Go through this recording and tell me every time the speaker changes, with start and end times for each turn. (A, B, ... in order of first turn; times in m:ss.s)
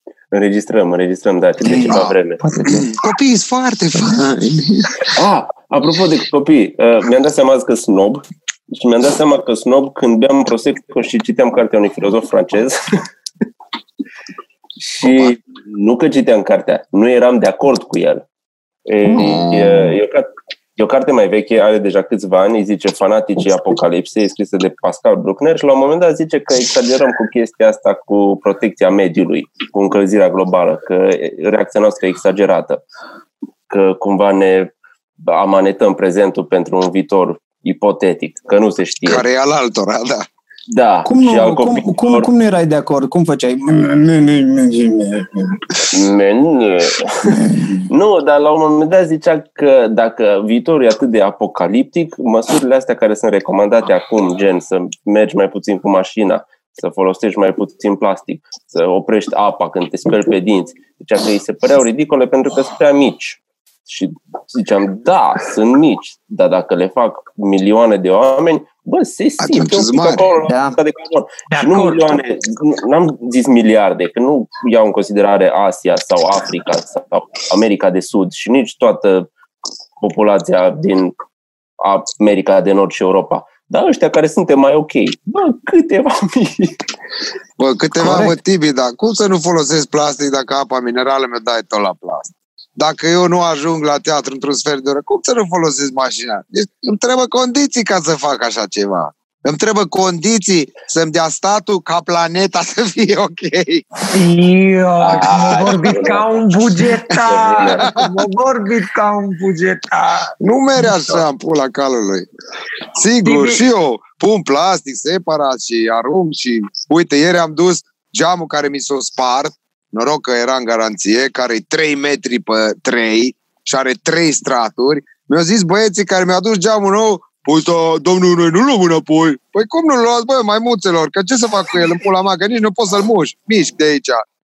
0:00.3-0:02.4 A
0:01.6-0:03.0 B
0:01.6-0:02.2 C
0:02.7-0:05.0 C
0:05.2-0:12.9 A
0:15.0-0:18.2 A
0:15.0-0:15.3 C
0:18.9-0:32.8 A
0:19.1-0:20.0 C
0:33.7-0:34.7 A
0:35.3-0:39.2 A
0:39.0-0:40.2 C
0:40.7-0:42.3 A
0:41.0-0:45.6 B
0:45.9-1:19.3 A
1:09.4-1:10.3 C
1:10.5-1:10.8 B
1:11.5-1:12.2 D
1:20.0-1:21.1 A
1:21.8-1:26.8 A
1:27.6-1:43.9 C
1:28.0-1:28.4 B
1:44.1-1:50.3 D
1:45.0-1:48.0 A
1:47.8-1:48.1 C
1:50.4-1:52.3 C
1:52.8-2:14.2 C
1:53.2-1:53.6 D